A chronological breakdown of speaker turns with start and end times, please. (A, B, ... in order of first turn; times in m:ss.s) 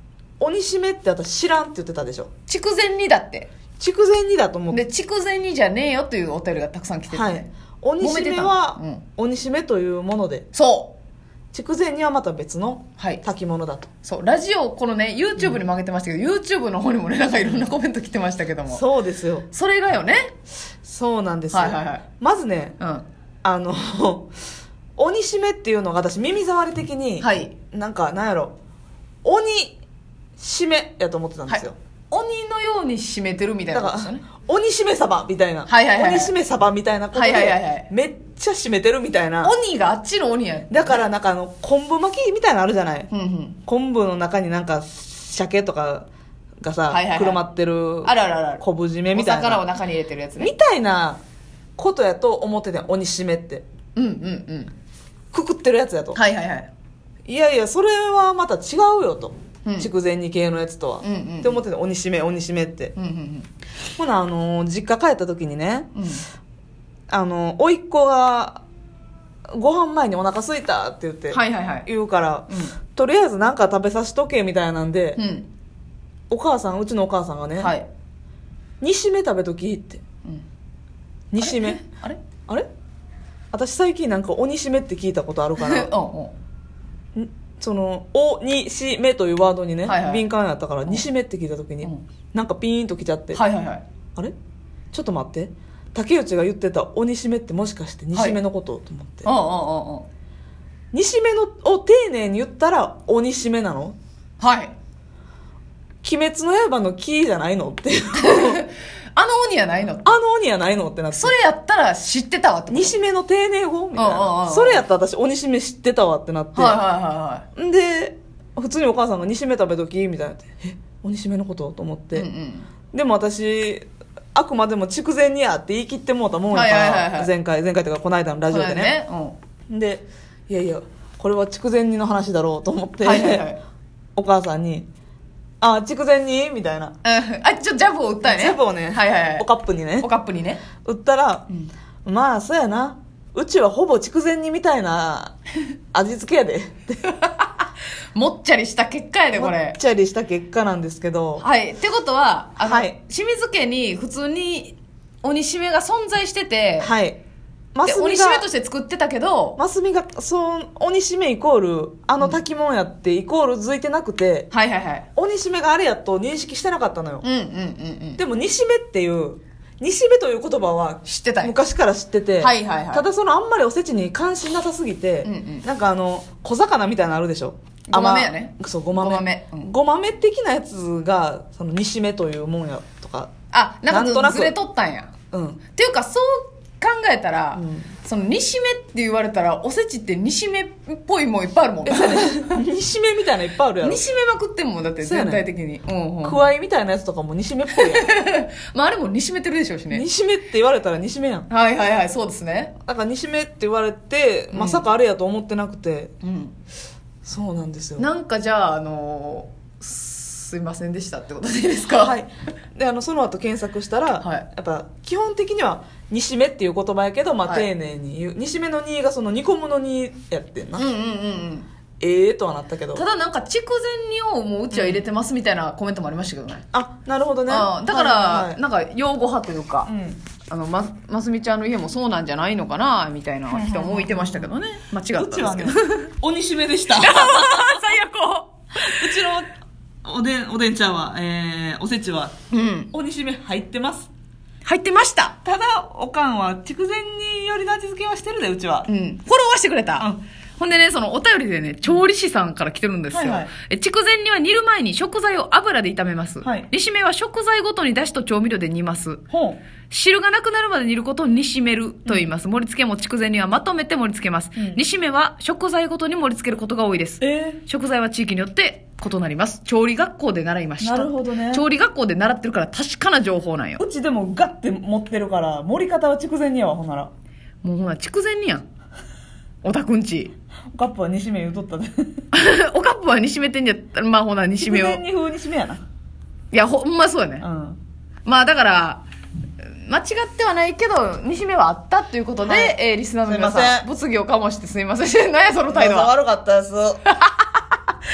0:00.4-0:02.3 A
0:02.5-0:03.5 B
0:03.8-0:04.8 A
0:04.7-0:07.5 B
0:07.1-0:10.5 A
0:08.0-0:09.0 B
0:10.5-0:11.0 B
0:11.5-0:13.9 A
0:14.0-0:18.8 B
0:18.7-0:19.5 A
0:19.5-0:20.3 B
0:20.8-0:22.8 A
0:21.5-0:22.0 B
0:22.8-0:23.0 B
0:23.4-0:24.3 A
0:25.0-0:28.5 A
0:27.2-0:27.6 B
0:29.2-0:29.8 A
0:30.4-0:31.8 A
0:31.5-0:34.2 B
0:33.7-0:39.5 A
0:35.7-0:36.3 B
0:37.1-0:37.9 B
0:39.4-0:41.0 B
0:40.7-0:43.1 A
0:43.1-0:43.6 B
0:43.7-0:46.1 A
0:46.6-0:49.6 A
0:46.9-0:47.4 B
0:48.0-0:50.5 B
0:50.4-0:51.2 A
0:51.8-0:53.6 A
0:54.0-0:54.7 B
0:55.3-0:56.2 A
0:56.2-0:56.7 B
0:57.3-1:02.9 A
0:59.6-0:59.9 B
1:01.0-1:01.6 B
1:03.0-1:03.5 B
1:04.0-1:05.9 A
1:06.0-1:06.2 B
1:07.1-1:08.6 A
1:09.5-1:15.2 A
1:11.3-1:11.9 B
1:12.5-1:12.8 B
1:15.2-1:15.5 B
1:16.3-1:17.7 A
1:17.6-1:17.9 B
1:18.8-1:20.0 A
1:21.3-1:21.8 A
1:21.4-1:22.2 B
1:23.5-1:25.9 A
1:25.6-1:26.4 B
1:27.2-1:33.4 A
1:29.9-1:30.2 B
1:33.3-1:33.8 B
1:34.9-1:39.3 A
1:38.1-1:38.4 B
1:39.2-1:40.1 B
1:40.9-1:44.0 A
1:44.4-1:44.7 B
1:46.0-1:48.6 A
1:48.2-1:50.1 B
1:50.0-1:51.4 A
1:51.1-1:53.0 B
1:52.7-1:56.8 A
1:54.0-1:54.8 B
1:56.5-1:57.4 B
1:57.6-2:02.3 A
2:02.1-2:02.7 B
2:02.9-2:09.0 A
2:06.5-2:07.3 B
2:08.5-2:09.4 B
2:09.7-2:13.5 A
2:13.0-2:13.6 B
2:14.2-2:14.9 A
2:15.6-2:17.0 A
2:17.0-2:19.5 B
2:18.2-2:20.1 A
2:20.0-2:20.6 B
2:20.8-2:21.5 A
2:22.0-2:25.4 A
2:25.9-2:27.0 A
2:27.0-2:29.8 B
2:29.3-2:31.4 A
2:31.4-2:36.9 B
2:32.6-2:33.0 A
2:36.8-2:37.2 A
2:37.8-2:38.5 A
2:37.8-2:39.6 B
2:39.6-2:44.5 A
2:44.5-2:45.1 B
2:45.2-2:47.2 A
2:47.2-2:48.2 B
2:48.2-3:03.3 A
2:51.0-2:51.5 B
2:52.4-2:53.0 B
2:55.2-2:55.6 B
2:57.9-2:59.7 B
3:03.5-3:05.1 B
3:03.9-3:04.6 A
3:05.3-3:05.6 A
3:05.7-3:12.6 B
3:07.6-3:07.9 A
3:11.9-3:14.0 A
3:13.8-3:16.4 B
3:15.0-3:15.4 A
3:16.2-3:18.1 A
3:17.8-3:20.0 B
3:19.9-3:21.5 A
3:21.5-3:22.7 B
3:22.8-3:26.1 A
3:24.5-3:24.8 B
3:26.2-3:26.6 B
3:27.2-3:28.1 A
3:28.0-3:32.2 B
3:32.0-3:40.9 A
3:34.2-3:34.5 B
3:40.8-3:41.7 B
3:42.0-3:43.0 A
3:42.9-3:46.6 B
3:44.7-3:45.0 A
3:46.7-3:48.6 A
3:47.5-3:49.9 B
3:49.9-3:50.2 A
3:50.5-3:56.1 B
3:53.5-3:54.5 A
3:55.2-3:58.0 A
3:57.0-3:59.2 B
3:58.8-3:59.5 A
4:00.0-4:02.3 A
4:02.5-4:02.9 B
4:02.9-4:04.1 A
4:04.6-4:05.4 B
4:05.4-4:08.9 A
4:08.9-4:19.2 B
4:13.1-4:13.5 A
4:16.4-4:16.7 A
4:19.3-4:19.6 A
4:19.9-4:33.8 B
4:27.2-4:27.6 A
4:30.8-4:31.6 A
4:33.8-4:37.1 A
4:37.6-4:38.6 B
4:39.6-4:40.3 B
4:40.7-4:42.1 A
4:42.3-4:45.0 B
4:44.6-4:45.8 A
4:46.5-4:47.4 B
4:47.4-4:47.8 A
4:48.2-4:49.0 B
4:49.6-4:56.1 B
4:52.4-4:53.9 A
4:55.7-4:57.0 A
4:57.1-4:57.8 B